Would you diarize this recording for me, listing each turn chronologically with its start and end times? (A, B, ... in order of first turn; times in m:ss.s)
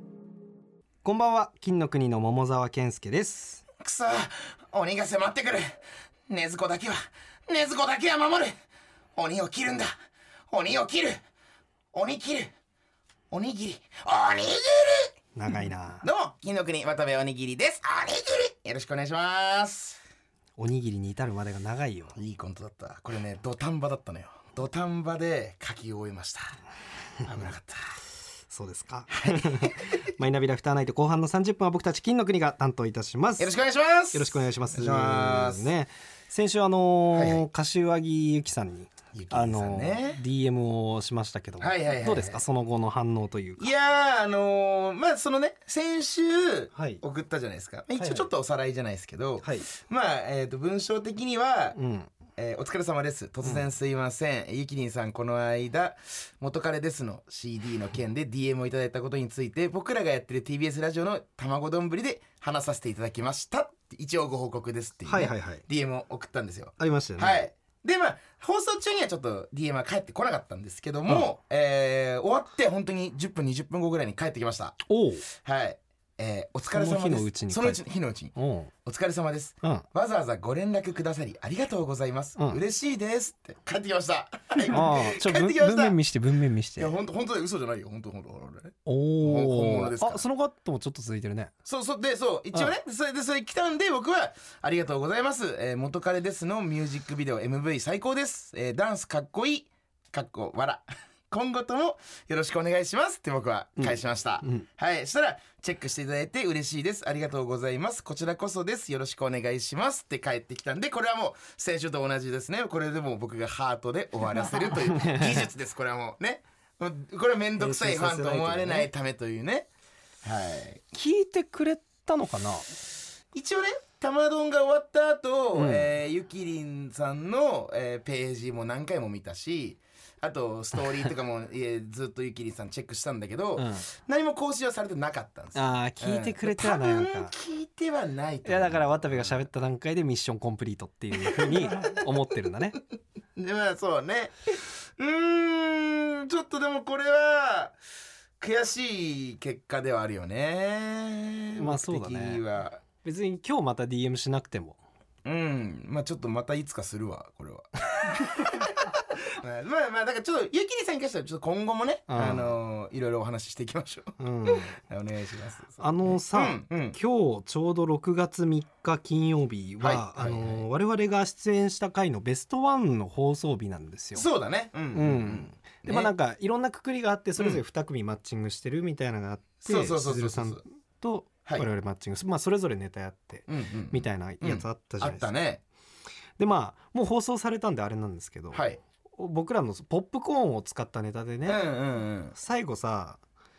0:01.0-0:03.6 A
0:03.8-0:08.5 B
0:09.2-0:09.9 B
0:10.5-0:11.2 B
0:11.9-0:12.5 B
0:13.3-0:20.0 B
0:15.4-0:16.0 A
0:20.6-0:22.2 A
0:22.2-0:26.6 B
0:27.2-0:28.0 B
0:28.5-0:33.5 A
0:29.2-0:30.1 B
0:33.4-0:35.7 B
0:34.1-0:43.7 A
0:37.1-0:37.4 B
0:39.1-0:40.2 B
0:41.6-0:42.4 B
0:43.6-0:51.8 B
0:46.7-0:47.0 A
0:48.0-0:48.3 A
0:51.8-0:52.1 A
0:52.4-1:18.3 B
1:05.1-1:05.6 A
1:06.8-1:07.4 A
1:14.8-1:15.2 A
1:16.7-1:17.8 A
1:18.3-1:18.7 A
1:18.8-1:26.0 B
1:24.7-1:26.9 A
1:26.8-1:30.2 B
1:28.8-1:31.5 A
1:31.6-1:59.7 B
1:43.8-1:44.6 A
1:54.9-1:55.5 A
1:57.6-1:58.9 A
2:00.2-2:00.8 B
2:00.9-2:02.7 A
2:03.3-2:19.4 B
2:05.5-2:05.9 A
2:13.6-2:13.8 A
2:15.5-2:17.3 A
2:18.4-2:22.8 A
2:21.1-2:22.1 B
2:23.4-2:27.8 B
2:28.4-2:32.8 B
2:31.6-2:32.4 A
2:33.0-2:34.8 A
2:35.2-2:47.0 B
2:42.1-2:42.6 A
2:44.2-2:44.8 A
2:45.8-2:54.2 A
2:49.8-2:50.6 B
2:54.1-2:56.1 B
2:54.9-3:05.3 A
2:59.6-3:00.6 B
3:03.5-3:05.6 B
3:06.4-3:08.6 A
3:08.5-3:08.8 B
3:09.2-3:11.6 A
3:11.4-3:12.3 B
3:12.3-3:13.2 A